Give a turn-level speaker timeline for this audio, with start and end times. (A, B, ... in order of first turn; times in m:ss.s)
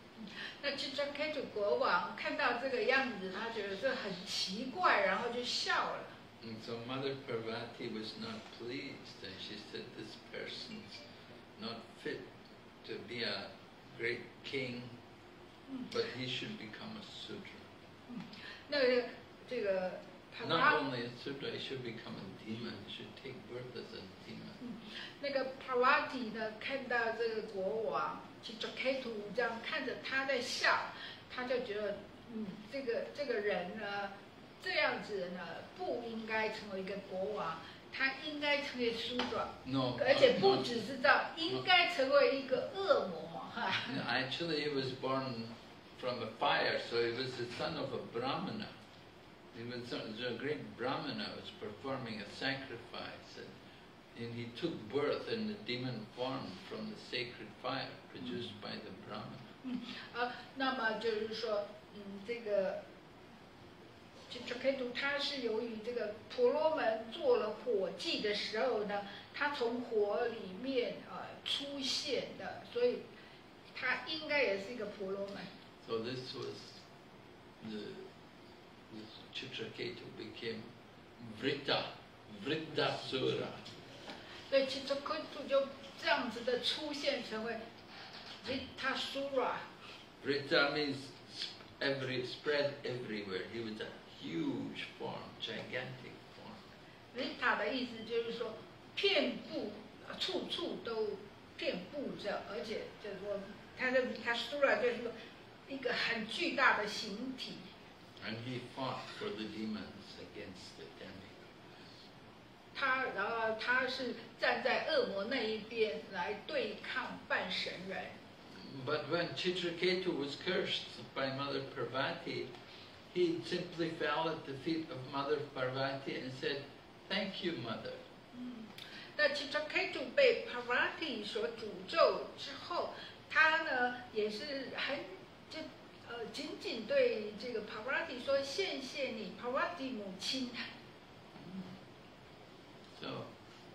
0:00.2-0:06.1 A
0:06.4-0:11.0 B
0:11.6-0:12.3 B
0:12.8-0:15.0 B
0:15.9-0:17.7 B
0:18.1-0:20.8 A
0:20.4-0:24.6 B
0:24.6-0:44.0 A
0:39.6-0:40.8 B
0:43.8-0:48.8 B
0:49.5-0:53.5 B
0:54.1-0:59.5 B
0:59.6-1:02.8 A
1:04.3-1:13.0 A
1:13.7-1:15.5 A
1:15.8-1:16.8 B
1:17.6-1:18.1 B
1:18.9-1:23.7 B
1:24.5-1:27.6 A
1:28.4-1:29.7 A
1:30.2-1:36.6 B
1:37.1-1:45.2 A
1:45.7-1:47.7 A
1:48.2-1:51.6 B
1:52.7-1:58.2 A
1:58.5-2:02.5 B
2:03.1-2:08.0 B
2:08.3-2:20.6 A
2:21.3-2:21.8 B
2:23.0-2:23.3 B